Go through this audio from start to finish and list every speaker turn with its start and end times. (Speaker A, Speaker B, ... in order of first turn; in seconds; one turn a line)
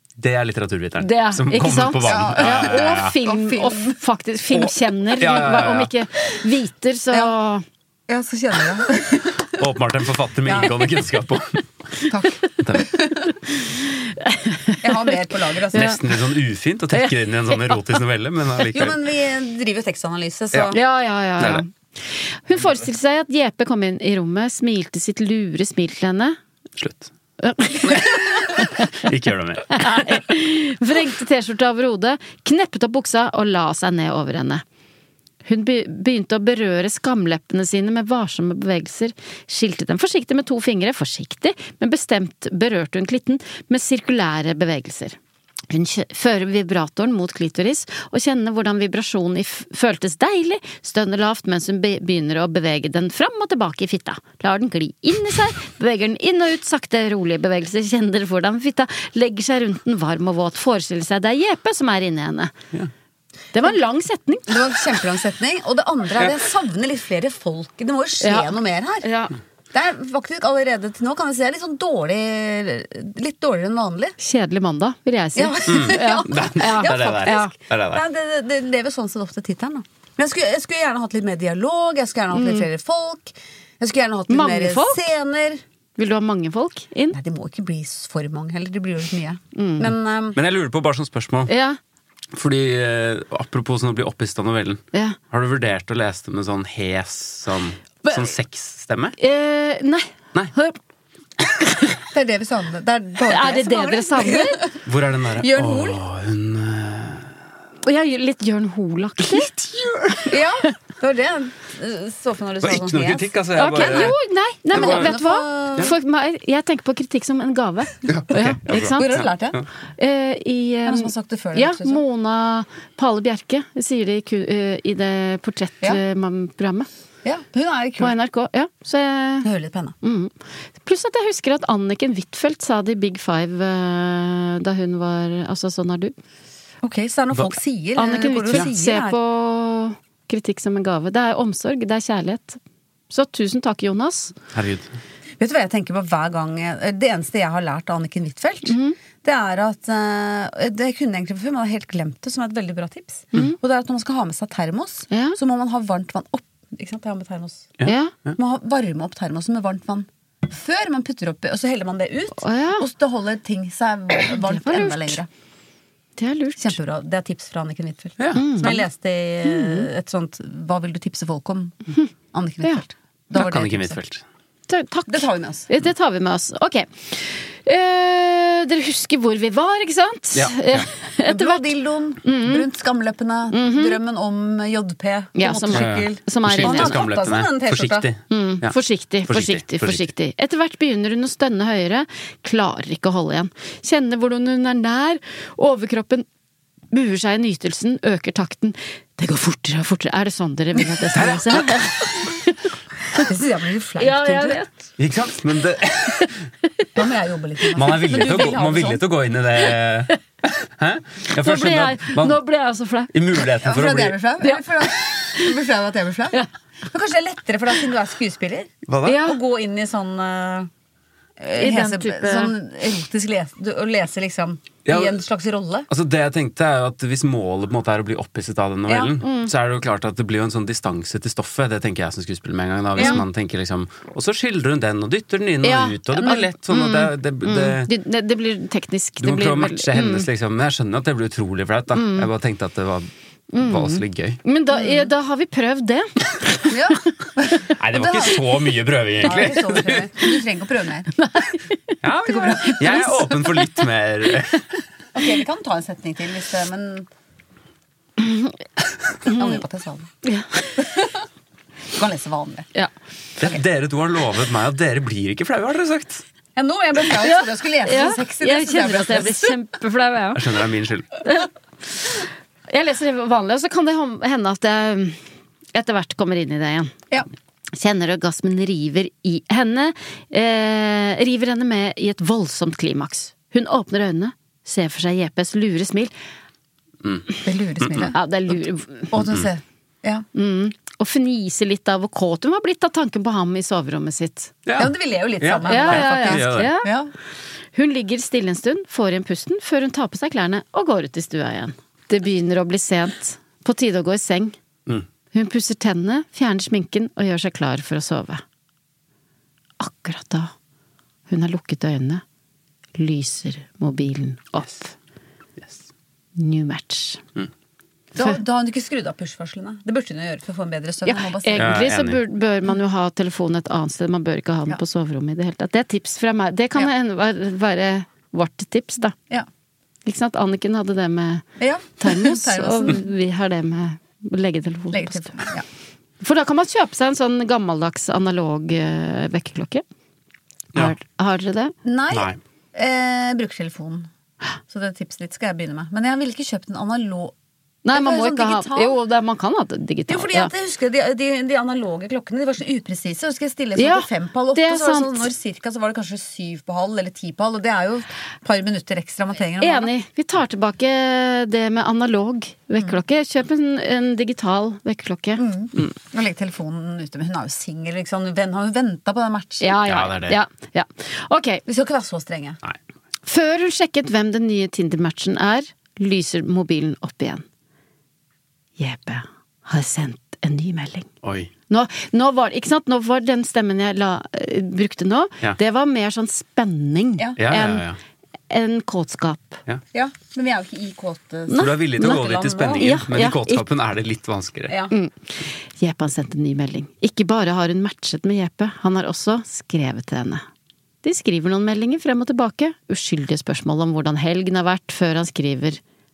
Speaker A: 0.2-3.1
Speaker B: 1.0-7.6
Speaker C: 2.0-4.0
Speaker A: 4.5-5.9
Speaker C: 8.1-9.4
Speaker A: 9.6-11.6
Speaker C: 10.4-10.7
Speaker C: 12.1-13.2
Speaker A: 12.6-12.9
Speaker B: 13.9-14.9
Speaker C: 14.8-16.0
Speaker A: 15.7-19.0
Speaker B: 16.9-17.8
Speaker C: 18.7-20.8
Speaker B: 20.7-26.4
Speaker A: 26.8-27.1
Speaker B: 27.4-28.8
Speaker A: 27.9-30.0
Speaker B: 29.7-34.6
Speaker B: 35.5-45.2
Speaker B: 45.7-62.5
Speaker B: 63.5-64.5
Speaker C: 64.5-69.0
Speaker B: 68.2-69.3
Speaker C: 69.7-74.2
Speaker B: 74.2-77.5
Speaker C: 75.3-85.6
Speaker A: 75.7-78.0
Speaker B: 82.3-82.7
Speaker B: 84.3-85.1
Speaker B: 86.0-87.2
Speaker C: 87.1-90.4
Speaker B: 89.5-89.9
Speaker A: 90.3-91.5
Speaker B: 91.5-91.8
Speaker A: 92.3-99.2
Speaker B: 98.0-98.3
Speaker B: 99.2-100.8
Speaker C: 102.1-104.8
Speaker B: 103.2-104.6
Speaker A: 104.8-107.3
Speaker C: 105.4-106.0
Speaker B: 107.8-109.5
Speaker A: 109.3-110.2
Speaker C: 110.3-114.1
Speaker A: 112.6-114.1
Speaker B: 113.5-119.1
Speaker C: 114.7-115.9
Speaker A: 114.7-115.1
Speaker A: 118.0-119.6
Speaker C: 118.7-119.6
Speaker B: 120.0-126.9
Speaker C: 120.8-122.0
Speaker C: 127.2-128.1
Speaker B: 128.0-129.5
Speaker C: 129.4-129.9
Speaker B: 130.0-136.1
Speaker C: 136.8-139.2
Speaker B: 138.0-142.6
Speaker B: 143.1-144.3
Speaker A: 144.5-144.9
Speaker C: 145.4-157.7
Speaker B: 148.7-148.9
Speaker B: 155.1-155.4
Speaker A: 157.8-158.3
Speaker B: 157.8-158.1
Speaker C: 158.3-165.3
Speaker B: 162.4-162.8
Speaker B: 164.3-165.2
Speaker B: 166.2-166.8
Speaker C: 166.6-171.8
Speaker A: 168.2-168.7
Speaker B: 168.3-168.8
Speaker B: 169.5-169.8
Speaker C: 172.3-174.0
Speaker A: 173.3-174.2
Speaker B: 174.7-181.7
Speaker C: 175.1-175.7
Speaker A: 180.3-180.9
Speaker C: 181.2-188.1
Speaker B: 182.2-182.7
Speaker B: 183.5-184.0
Speaker B: 185.3-187.0
Speaker A: 185.7-188.7
Speaker B: 188.3-196.2
Speaker A: 189.3-190.1
Speaker B: 196.9-202.6
Speaker A: 201.1-201.9
Speaker C: 203.1-204.6
Speaker B: 204.0-204.7
Speaker A: 205.0-206.3
Speaker C: 206.9-209.0
Speaker A: 207.7-212.4
Speaker B: 208.1-208.6
Speaker B: 211.3-213.1
Speaker A: 213.1-214.2
Speaker C: 213.6-220.7
Speaker B: 214.4-214.8
Speaker A: 218.9-219.2
Speaker B: 219.0-219.4
Speaker C: 221.4-225.9
Speaker B: 221.6-222.5
Speaker A: 224.8-225.2
Speaker A: 225.9-237.9
Speaker B: 229.2-229.5
Speaker C: 232.9-233.2
Speaker B: 233.0-233.2
Speaker B: 235.6-240.3
Speaker A: 239.2-243.1
Speaker B: 241.9-242.3
Speaker B: 243.5-246.7
Speaker A: 243.6-244.4
Speaker C: 244.7-245.1
Speaker C: 246.7-248.4
Speaker A: 247.8-250.1
Speaker C: 249.2-251.1
Speaker B: 251.2-253.5
Speaker A: 252.0-254.6
Speaker C: 252.2-253.1
Speaker C: 255.1-257.1
Speaker B: 258.2-258.5
Speaker B: 259.2-259.6
Speaker C: 259.3-260.1
Speaker B: 260.2-260.8
Speaker C: 260.8-261.1
Speaker C: 261.9-262.7
Speaker A: 263.4-266.2
Speaker C: 266.6-269.5
Speaker B: 267.2-270.4
Speaker A: 270.3-271.1
Speaker B: 272.7-275.2
Speaker B: 275.7-276.9
Speaker B: 277.7-286.1
Speaker C: 287.4-288.2
Speaker A: 287.8-288.1
Speaker B: 288.0-289.1
Speaker C: 289.1-290.2
Speaker B: 290.3-294.5
Speaker A: 294.6-296.7
Speaker C: 294.8-297.1
Speaker B: 295.6-296.9
Speaker B: 297.7-304.5
Speaker B: 305.3-308.4
Speaker B: 309.8-310.5
Speaker B: 311.3-312.2
Speaker B: 313.0-314.9
Speaker B: 316.4-317.2
Speaker C: 318.1-321.8
Speaker B: 321.1-329.1
Speaker A: 321.6-322.2
Speaker B: 330.0-331.4
Speaker C: 331.6-333.0
Speaker B: 332.0-335.4
Speaker C: 334.9-335.6
Speaker B: 336.2-339.8
Speaker B: 340.7-341.7
Speaker C: 341.8-344.1
Speaker A: 342.1-342.4
Speaker C: 344.7-347.3
Speaker B: 347.8-350.5
Speaker C: 347.9-349.0
Speaker C: 350.1-359.9
Speaker B: 353.8-355.3
Speaker B: 359.6-365.9
Speaker C: 365.4-369.7
Speaker B: 369.6-371.6
Speaker A: 369.8-370.4
Speaker C: 371.6-372.6
Speaker B: 373.2-377.4
Speaker B: 378.8-381.1
Speaker A: 381.2-381.5
Speaker B: 381.7-387.9
Speaker A: 387.4-388.0
Speaker B: 388.5-389.6
Speaker C: 389.9-393.0
Speaker B: 391.5-392.2
Speaker A: 391.6-394.8
Speaker B: 392.8-393.6
Speaker B: 394.9-400.4
Speaker B: 401.0-405.8